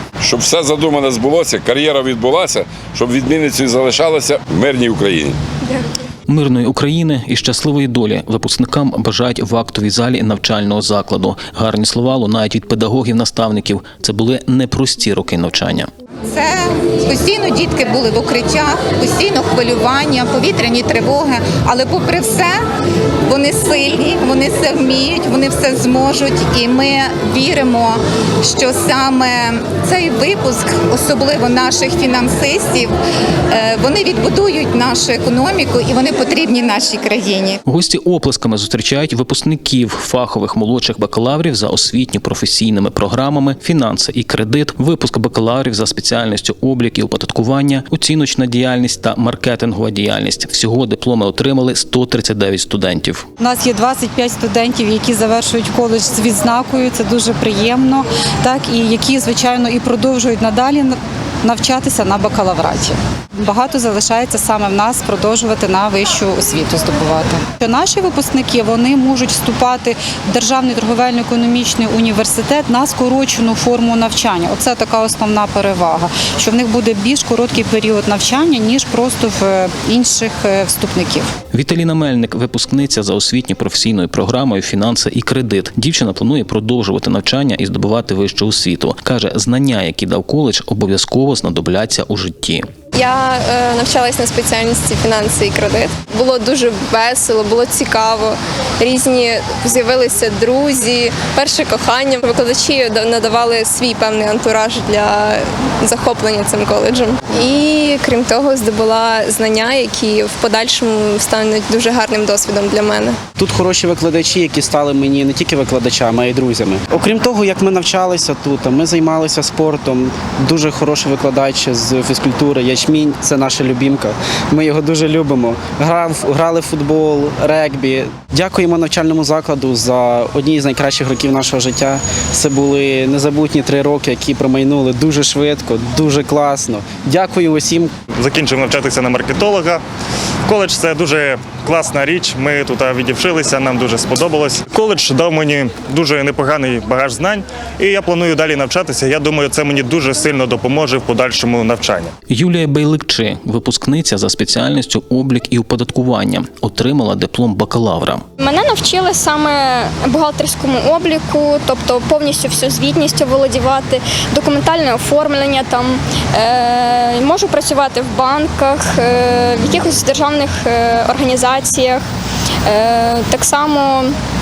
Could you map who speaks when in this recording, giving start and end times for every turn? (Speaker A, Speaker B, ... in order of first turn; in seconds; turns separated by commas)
Speaker A: 0.2-5.4, Speaker B: 6.3-15.9, Speaker C: 16.3-22.6, Speaker C: 23.3-32.9, Speaker C: 33.5-37.6, Speaker B: 37.7-53.2, Speaker D: 53.4-81.3, Speaker B: 81.5-92.7, Speaker E: 92.9-113.2, Speaker F: 113.4-137.9, Speaker G: 138.2-139.8, Speaker G: 140.5-152.1, Speaker B: 152.3-158.2, Speaker H: 158.4-172.0, Speaker H: 172.7-174.1